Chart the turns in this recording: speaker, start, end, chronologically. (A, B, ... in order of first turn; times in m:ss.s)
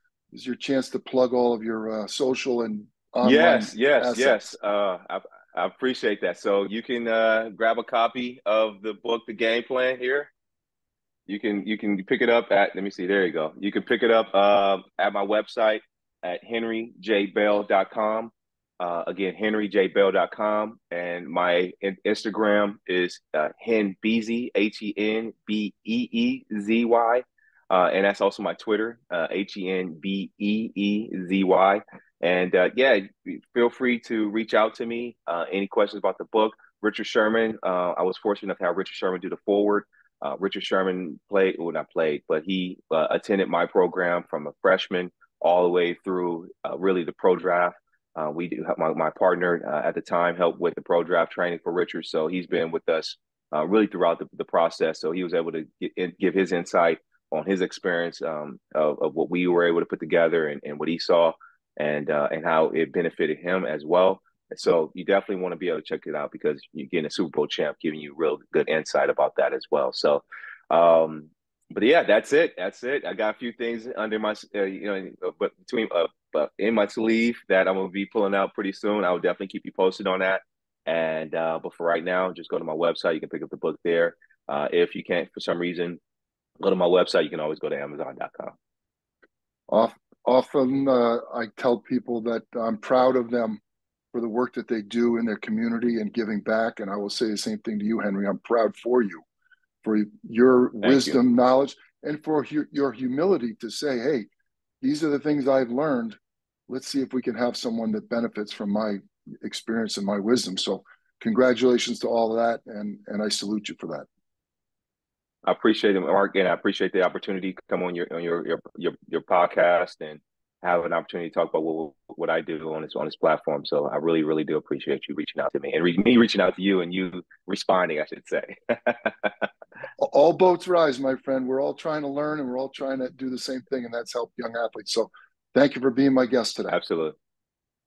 0:00.3-0:04.4 A
0:03.2-0:10.3 B
0:11.3-1:26.0 B
1:26.6-1:28.5 B
1:29.7-1:33.6 A
1:34.1-1:39.2 A
1:39.8-1:44.3 A
1:40.8-1:41.1 B
1:44.8-1:46.2 A
1:46.7-1:54.1 A
1:55.4-2:09.5 B
2:10.0-2:16.8 A
2:16.7-2:17.1 B